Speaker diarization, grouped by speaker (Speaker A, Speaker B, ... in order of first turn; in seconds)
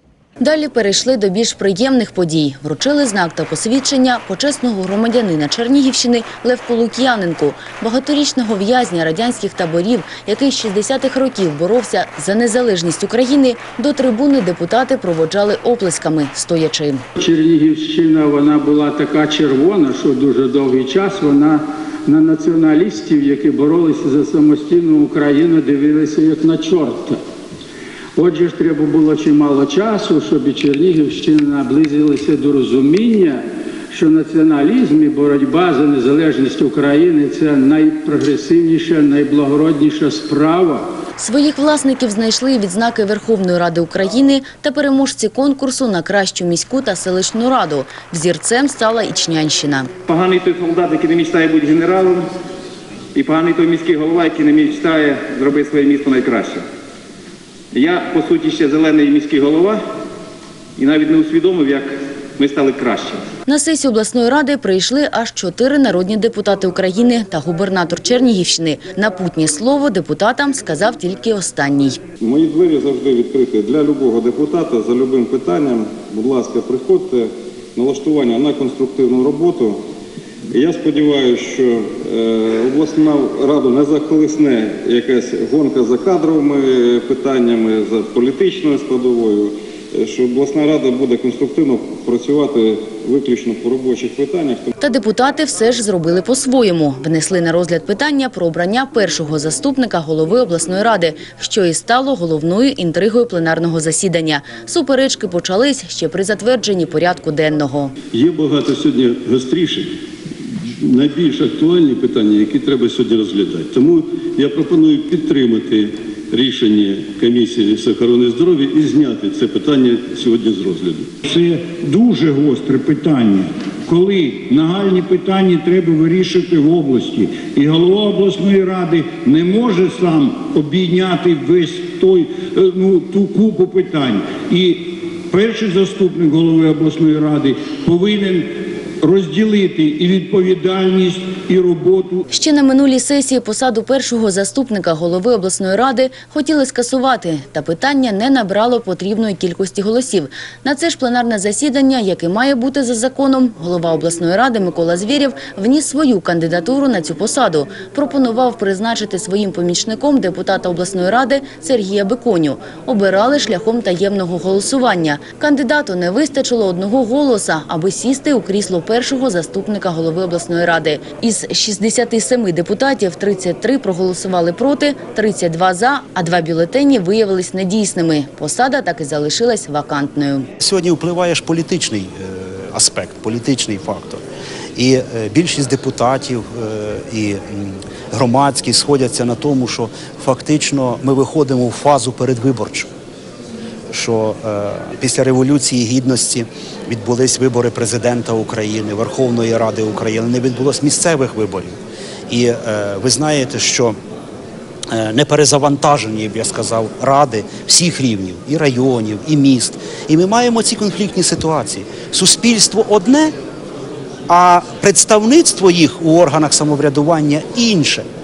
Speaker A: 0.4-17.0, 41.2-49.9, 63.5-72.0, 94.8-107.9, 142.3-180.5
Speaker B: 17.2-27.2, 28.1-40.9
Speaker C: 50.0-52.3, 53.1-56.6, 57.7-59.8, 60.8-63.2
Speaker D: 72.2-79.8, 80.5-94.7
Speaker E: 108.1-109.9, 110.6-121.1
Speaker F: 121.2-138.5, 139.0-142.2
Speaker G: 180.6-184.2, 184.8-192.9, 193.9-201.7, 202.3-203.9, 204.9-213.3, 214.3-218.0